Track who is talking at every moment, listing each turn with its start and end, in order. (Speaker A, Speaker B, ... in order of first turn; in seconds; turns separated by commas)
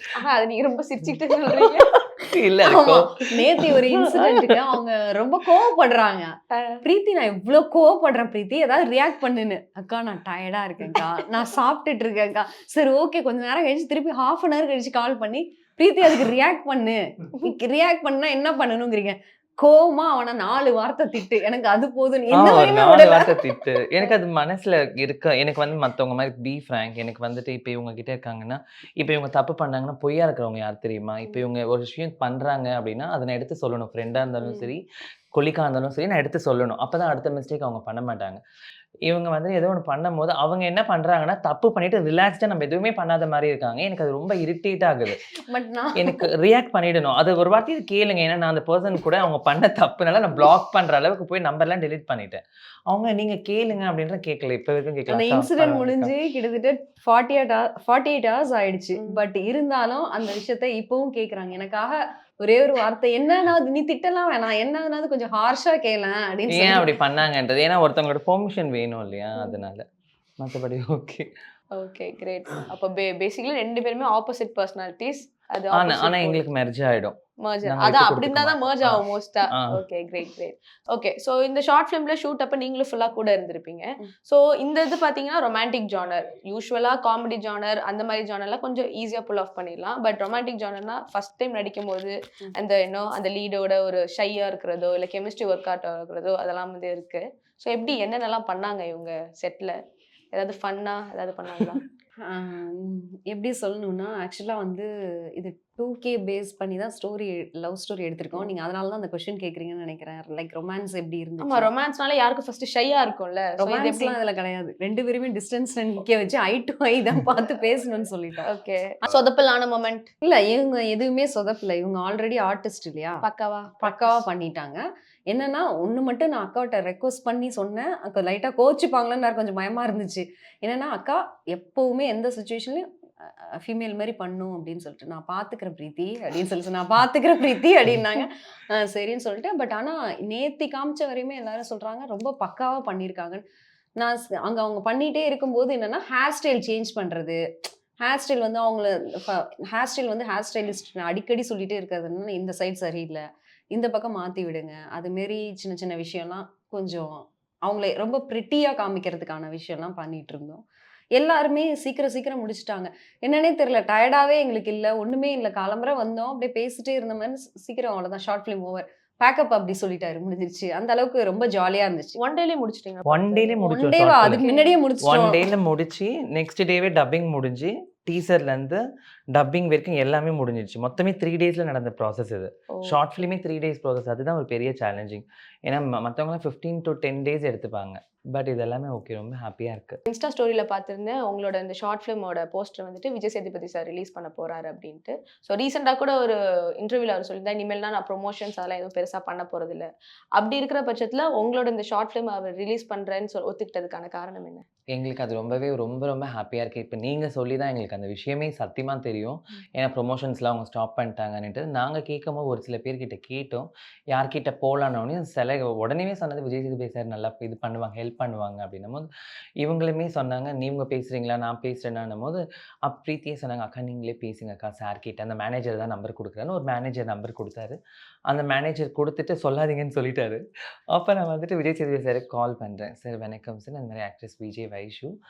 Speaker A: 0.2-1.9, Speaker B: 1.5-4.6, Speaker C: 2.6-6.3, Speaker A: 6.5-6.8, Speaker C: 6.8-23.6, Speaker B: 22.3-34.8, Speaker B: 35.3-38.4, Speaker B: 39.1-45.3, Speaker C: 45.4-46.2, Speaker B: 46.0-56.1, Speaker C: 55.1-66.9, Speaker B: 66.5-69.8, Speaker B: 70.4-71.3, Speaker A: 71.8-76.4, Speaker B: 75.7-79.8, Speaker A: 77.4-99.8, Speaker A: 100.3-101.8, Speaker C: 102.2-111.7, Speaker A: 111.4-114.2, Speaker C: 113.6-118.5, Speaker A: 118.5-120.1, Speaker C: 120.2-123.2, Speaker A: 123.2-124.2, Speaker C: 123.8-143.4, Speaker C: 144.0-147.4, Speaker C: 148.0-153.2, Speaker C: 153.7-160.6, Speaker C: 161.2-172.2, Speaker A: 172.2-173.7, Speaker B: 173.1-174.4, Speaker C: 173.7-175.4, Speaker A: 174.3-174.8, Speaker B: 175.0-178.8, Speaker B: 179.3-190.0, Speaker A: 182.7-183.0, Speaker A: 190.1-204.6, Speaker B: 204.9-219.1, Speaker B: 219.6-230.4, Speaker B: 230.9-235.1